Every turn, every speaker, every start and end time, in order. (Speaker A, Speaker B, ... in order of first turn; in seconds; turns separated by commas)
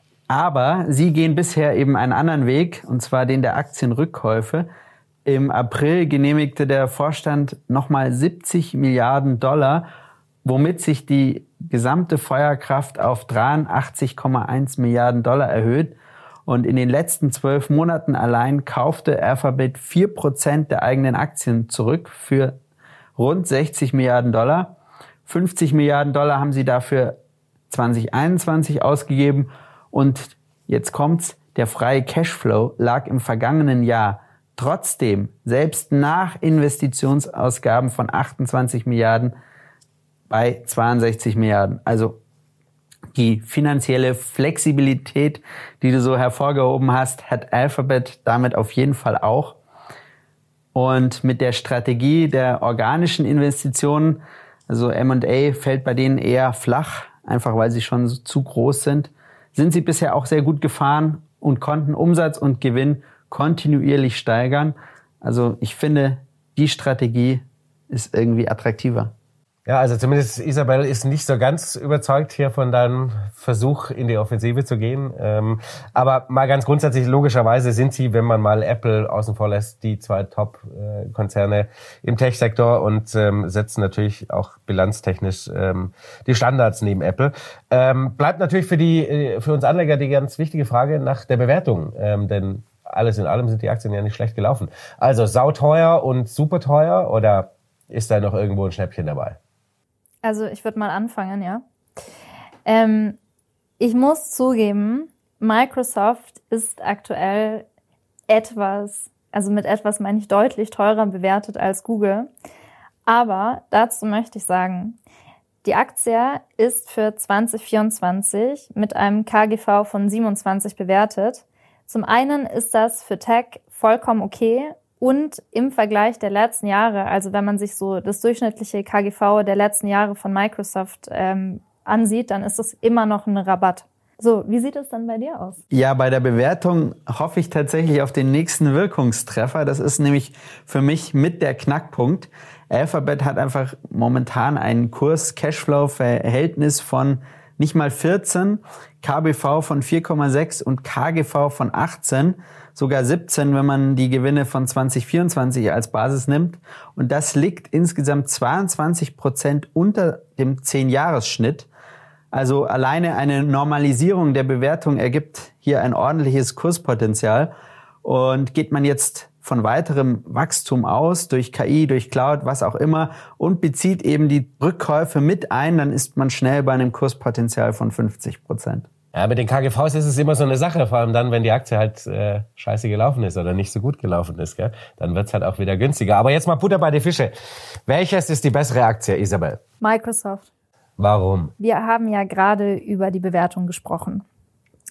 Speaker A: 0.3-4.7, Speaker A: 5.2-9.8, Speaker A: 10.4-15.9, Speaker A: 16.4-22.6, Speaker A: 23.2-24.7, Speaker A: 25.2-27.2, Speaker A: 27.7-39.3, Speaker A: 40.3-42.2, Speaker A: 43.1-49.6, Speaker A: 50.7-69.1, Speaker B: 69.7-99.4, Speaker C: 100.2-101.6, Speaker C: 102.7-103.2, Speaker C: 103.8-107.6, Speaker C: 108.3-112.3, Speaker C: 113.0-115.0, Speaker C: 115.6-135.6, Speaker A: 135.7-161.7, Speaker A: 162.3-167.5, Speaker A: 168.0-178.9, Speaker B: 179.1-187.3, Speaker B: 187.9-189.6, Speaker C: 189.8-190.5, Speaker B: 191.0-191.5, Speaker C: 191.6-194.2